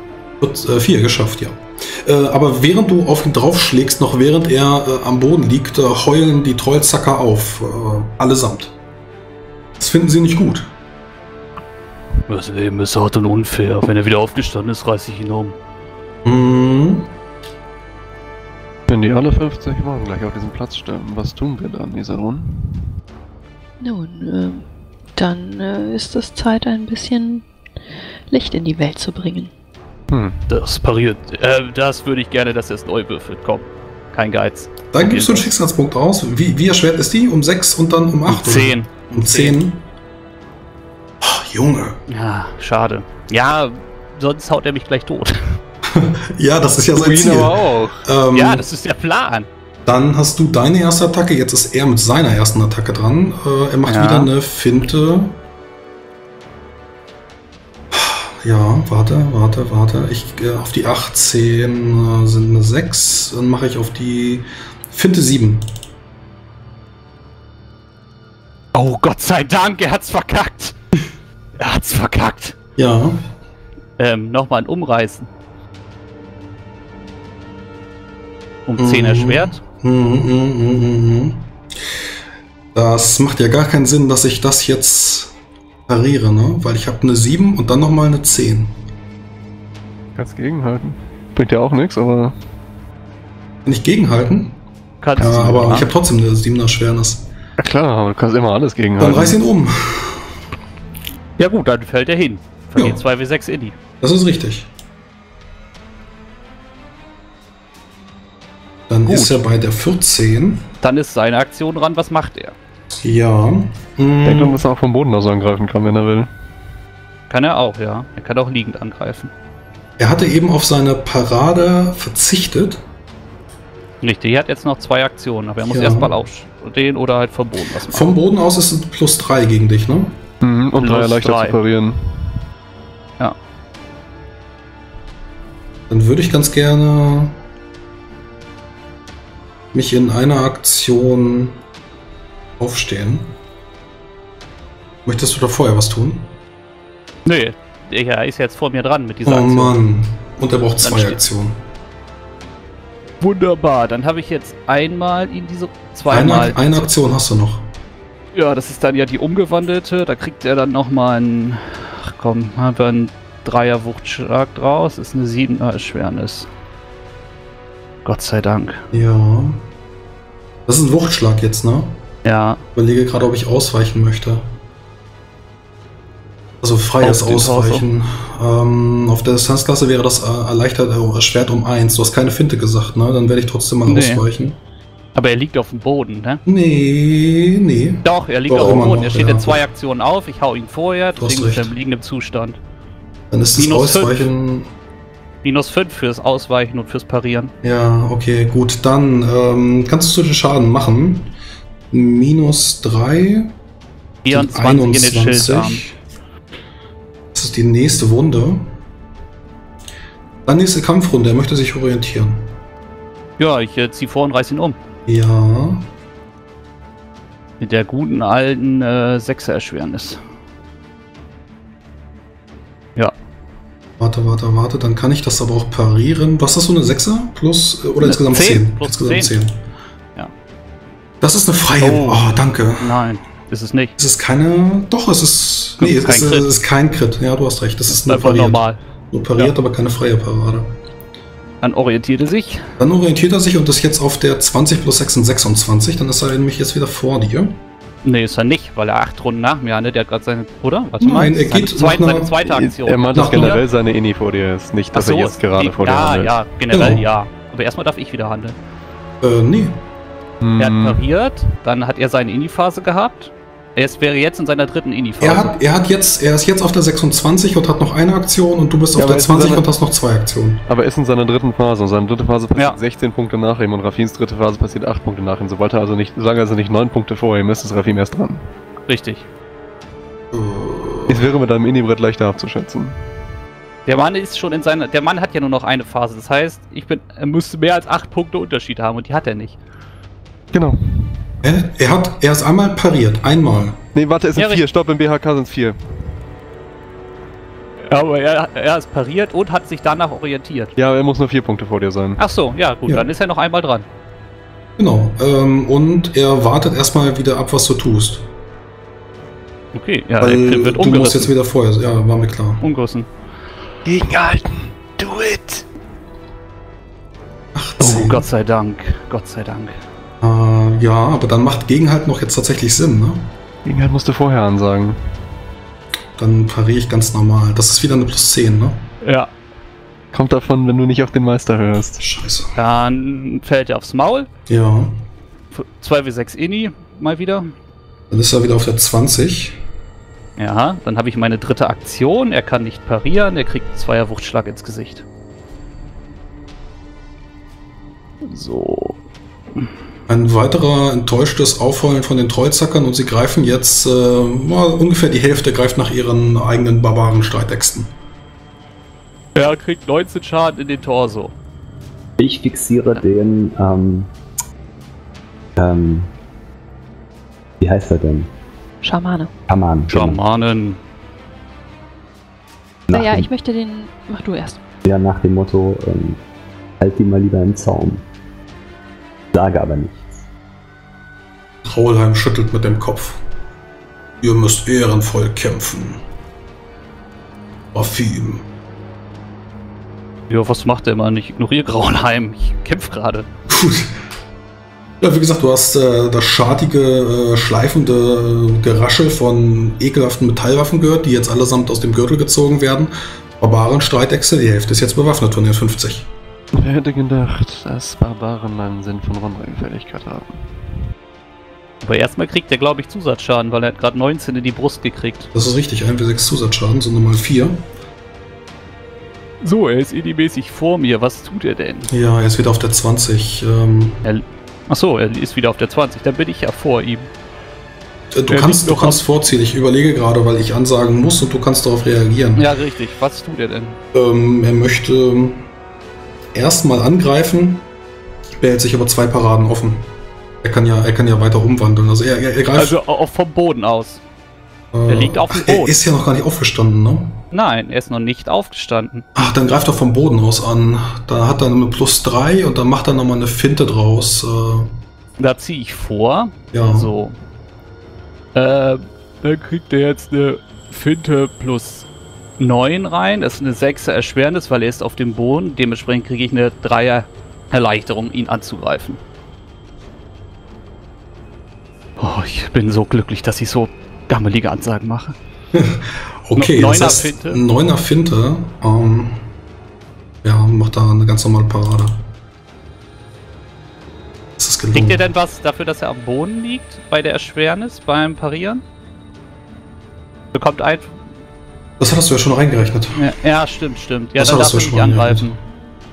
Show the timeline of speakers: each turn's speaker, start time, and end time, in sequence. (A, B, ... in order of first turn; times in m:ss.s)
0:00.4-0:08.8 A
0:09.8-0:10.7 A
0:12.3-0:15.6 B
0:16.2-0:17.1 A
0:18.9-0:22.9 C
0:23.8-0:27.5 D
0:28.3-0:29.5 D
0:30.1-0:30.5 C
0:30.5-0:35.5 B
0:34.9-0:39.9 A
0:38.3-0:39.6 B
0:41.2-0:42.0 A
0:42.1-0:45.6 B
0:45.9-0:48.6 A
0:47.0-0:48.1 C
0:48.3-0:49.5 B
0:49.9-0:55.4 A
0:53.9-0:54.3 B
0:57.9-1:05.7 A
1:08.7-1:11.0 B
1:11.6-1:12.6 B
1:12.8-1:13.2 A
1:14.0-1:15.3 B
1:18.7-1:19.6 B
1:18.8-1:21.5 A
1:22.7-1:25.3 A
1:25.9-1:28.8 A
1:30.2-1:32.4 C
1:33.6-1:34.6 A
1:35.0-1:35.9 B
1:35.2-1:37.3 A
1:37.6-1:39.4 C
1:39.0-1:40.3 A
1:41.4-1:43.8 B
1:42.8-1:43.0 A
1:44.0-1:44.7 A
1:48.9-1:50.7 A
1:49.1-1:49.4 B
1:50.8-1:52.6 B
1:53.0-1:54.6 A
1:54.2-1:56.3 C
1:57.3-1:59.3 B
2:00.0-2:02.8 A
2:04.0-2:08.1 B
2:05.7-2:06.1 A
2:07.8-2:10.2 A
2:10.4-2:12.4 C
2:10.8-2:11.6 B
2:15.9-2:17.4 A
2:19.7-2:21.6 A
2:22.6-2:23.3 A
2:25.0-2:26.3 A
2:27.3-2:29.8 B
2:29.2-2:31.6 A
2:30.8-2:31.2 B
2:33.2-2:36.9 B
2:36.1-2:37.7 A
2:38.3-2:46.5 B
2:48.0-2:48.8 B
2:48.9-2:49.6 A
2:50.7-2:52.0 A
2:52.2-2:52.6 B
2:52.8-2:54.5 A
2:56.6-3:04.6 A
2:57.0-2:57.8 B
3:03.9-3:04.2 B
3:05.2-3:06.4 B
3:06.5-3:09.6 A
3:08.0-3:12.6 B
3:11.2-3:11.7 A
3:13.3-3:14.7 A
3:13.6-3:14.3 B
3:15.4-3:17.5 B
3:17.6-3:21.3 A
3:21.9-3:23.6 A
3:24.2-3:25.8 B
3:24.3-3:26.0 A
3:27.3-3:28.7 A
3:30.4-3:32.5 A
3:33.4-3:34.8 B
3:35.1-3:35.9 A
3:37.6-3:40.2 B
3:44.0-3:49.5 A
3:48.0-3:49.4 B
3:51.2-3:53.0 A
3:51.8-3:52.2 B
3:52.8-3:53.9 B
3:54.0-4:00.8 A
3:55.8-3:56.5 B
3:57.9-3:58.8 B
4:01.6-4:02.7 B
4:02.8-4:07.6 A
4:08.0-4:13.6 B
4:11.0-4:12.3 A
4:12.5-4:16.4 C
4:13.1-4:13.6 A
4:14.9-4:18.6 B
4:16.7-4:17.1 A
4:19.2-4:19.8 A
4:20.4-4:21.0 C
4:20.6-4:25.6 B
4:25.2-4:30.6 A
4:29.0-4:29.7 C
4:30.7-4:38.5 C
4:38.9-4:39.3 B
4:40.3-4:41.3 A
4:41.1-4:43.0 C
4:43.9-4:49.6 B
4:50.5-4:51.3 C
4:51.4-4:53.8 A
4:54.0-4:55.8 C
4:54.4-4:54.6 B
4:57.8-5:00.7 B
5:00.8-5:02.2 C
5:02.2-5:03.9 B
5:04.8-5:08.3 A
5:09.7-5:11.3 B
5:10.2-5:12.6 A
5:12.6-5:13.1 B
5:13.8-5:15.6 C
5:17.5-5:18.3 A
5:17.8-5:19.8 B
5:20.2-5:23.3 A
5:23.6-5:25.0 C
5:26.2-5:28.9 A
5:29.0-5:29.3 B
5:30.1-5:32.0 C
5:32.0-5:32.6 A
5:32.6-5:34.3 B
5:34.5-5:35.0 A
5:35.5-5:37.5 B
5:38.1-5:39.6 A
5:40.4-5:45.0 B
5:48.2-5:49.0 B
5:50.1-5:57.9 A
5:59.4-6:01.4 B
6:02.2-6:04.1 E
6:05.6-6:06.1 E
6:07.6-6:08.3 E
6:08.8-6:09.3 D
6:09.5-6:10.2 E
6:09.9-6:10.8 B
6:12.9-6:13.3 E
6:12.9-6:14.6 D
6:14.8-6:16.2 E
6:16.8-6:18.0 E
6:19.3-6:20.1 E
6:21.6-6:23.2 A
6:24.2-6:26.0 A
6:27.7-6:28.5 A
6:30.3-6:33.3 B
6:33.5-6:33.9 A
6:35.0-6:46.1 A
6:46.6-6:50.7 C
6:51.8-6:55.3 B
6:55.3-6:57.6 A
6:59.4-7:01.9 B
7:01.9-7:04.0 A
7:04.0-7:07.1 B
7:08.1-7:12.5 A
7:08.3-7:09.0 B
7:12.4-7:13.8 B
7:13.9-7:15.5 A
7:16.3-7:17.6 A
7:18.4-7:19.9 A
7:20.4-7:22.8 A
7:22.6-7:24.0 B
7:24.7-7:27.2 A
7:24.9-7:25.8 B
7:27.3-7:29.1 B
7:29.2-7:34.8 A
7:35.2-7:37.2 B
7:36.5-7:36.9 A
7:38.4-7:41.9 B
7:42.4-7:49.0 B
7:52.0-7:55.2 B
7:55.5-7:59.2 A
7:56.4-7:57.4 B
8:00.2-8:02.1 A
8:04.4-8:05.0 A
8:04.7-8:08.6 B
8:10.3-8:11.0 B
8:11.8-8:13.0 A
8:13.0-8:15.4 B
8:14.2-8:15.4 A